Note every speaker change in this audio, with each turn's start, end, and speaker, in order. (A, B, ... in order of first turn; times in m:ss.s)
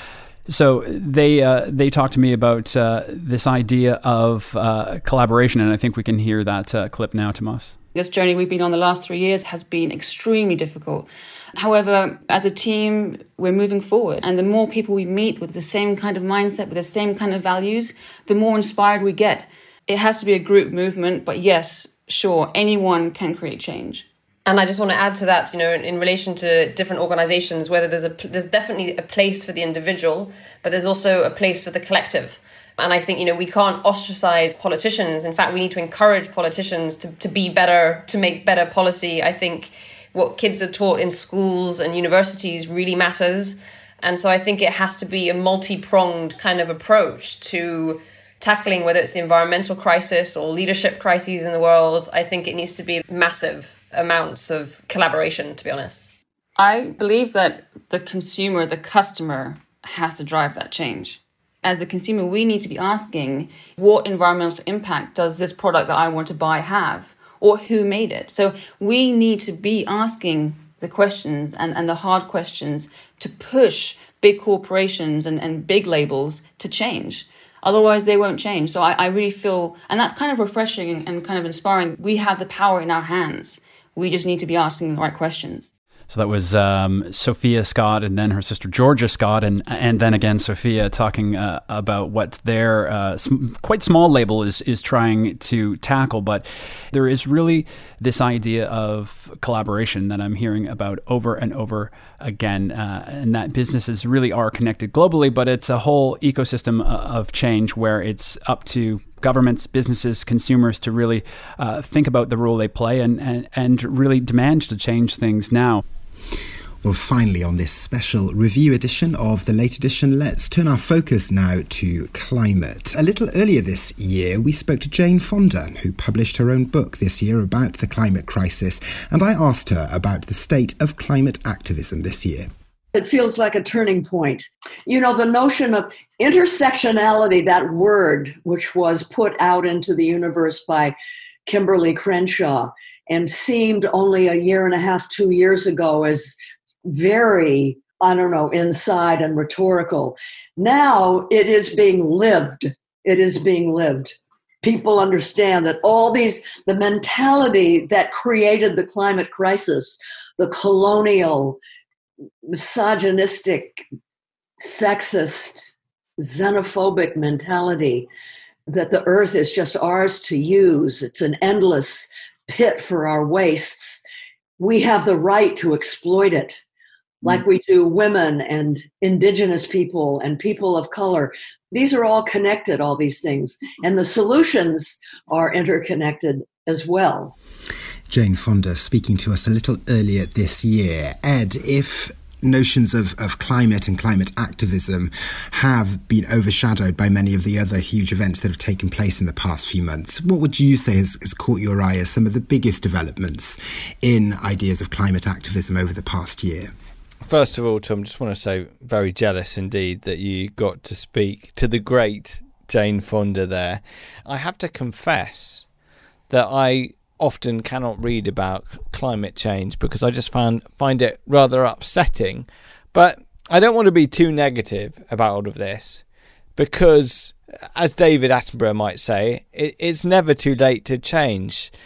0:00.5-0:07.7 A
0:07.9-0:24.0 B
0:24.4-0:56.1 C
0:56.6-1:25.7 B
1:26.1-1:55.8 A
1:56.8-2:12.5 D
2:12.9-2:20.9 E
2:21.5-2:41.6 E
2:42.5-2:43.8 E
2:44.6-2:48.1 E
2:48.7-2:54.0 E
2:54.6-2:56.5 E
2:57.2-3:07.3 E
3:08.1-3:26.7 D
3:27.2-3:35.6 F
3:36.3-3:46.0 F
3:46.6-3:51.7 F